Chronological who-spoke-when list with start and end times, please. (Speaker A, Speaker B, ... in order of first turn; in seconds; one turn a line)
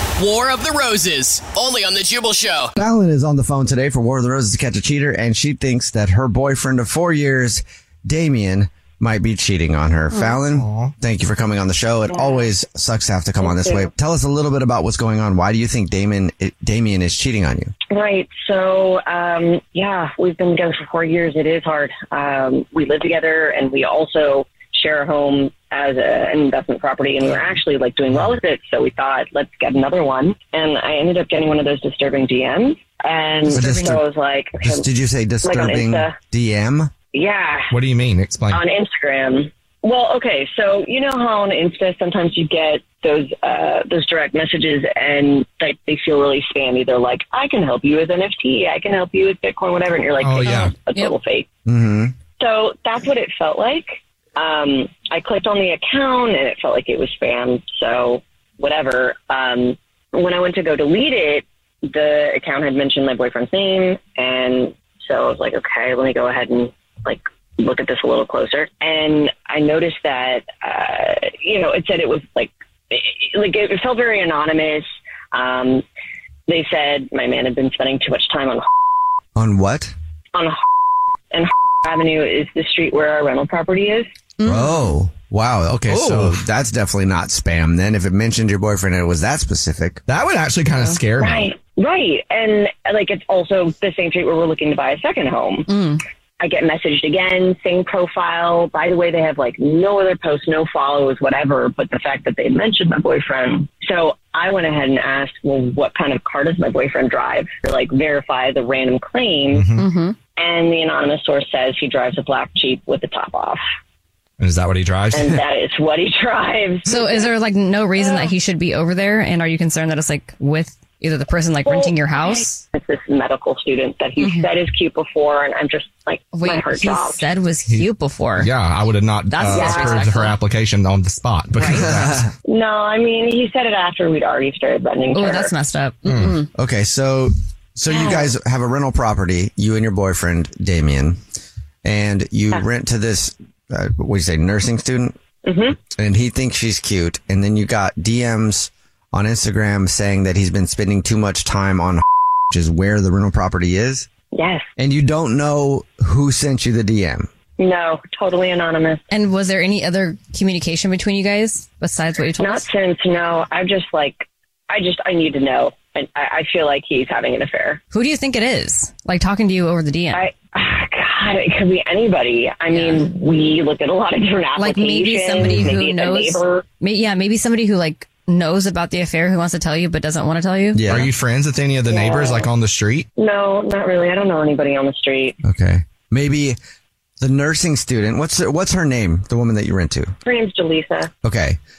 Speaker A: 0.2-2.7
Speaker B: 2.8-17.7
Speaker C: 10.5-10.9
Speaker D: 12.1-12.5
Speaker D: 13.4-13.9
Speaker D: 17.9-34.9
Speaker E: 33.5-34.0
Speaker B: 33.5-34.0
Speaker B: 34.6-36.9
Speaker D: 35.4-36.2
Speaker D: 37.1-37.7
Speaker C: 37.7-38.6
Speaker D: 38.5-51.5
Speaker C: 50.2-50.7
Speaker E: 50.5-51.1
Speaker B: 51.7-52.1
Speaker D: 52.4-75.8
Speaker D: 76.5-78.7
Speaker B: 79.4-79.9
Speaker D: 80.3-80.6
Speaker D: 81.3-84.1
Speaker E: 84.4-84.7
Speaker B: 84.4-90.0
Speaker C: 85.9-86.4
Speaker C: 90.1-91.5
Speaker D: 91.2-95.7
Speaker E: 95.7-96.0
Speaker D: 96.4-109.7
Speaker C: 109.5-109.8
Speaker E: 109.8-110.2
Speaker D: 110.4-113.6
Speaker C: 114.4-115.4
Speaker D: 115.1-116.9
Speaker E: 116.9-122.6
Speaker D: 118.0-118.3
Speaker D: 121.7-127.2
Speaker E: 124.2-124.5
Speaker E: 126.3-128.5
Speaker C: 128.4-132.3
Speaker E: 129.3-130.4
Speaker D: 129.5-130.1
Speaker E: 131.6-131.9
Speaker B: 131.8-132.3
Speaker D: 132.5-135.5
Speaker E: 135.1-136.5
Speaker C: 136.1-136.4
Speaker B: 136.5-141.2
Speaker D: 137.9-138.3
Speaker B: 141.8-145.2
Speaker D: 145.4-145.8
Speaker B: 145.8-154.1
Speaker D: 154.3-154.7
Speaker B: 154.8-157.3
Speaker D: 157.6-159.0
Speaker E: 159.1-162.7
Speaker D: 162.4-167.8
Speaker E: 167.9-170.3
Speaker D: 170.1-176.6
Speaker E: 172.7-173.1
Speaker E: 174.6-180.8
Speaker B: 180.7-181.1
Speaker C: 180.9-183.1
Speaker D: 181.9-182.5
Speaker D: 183.2-185.4
Speaker B: 185.4-186.6
Speaker B: 187.2-190.1
Speaker D: 190.2-191.1
Speaker B: 191.2-191.6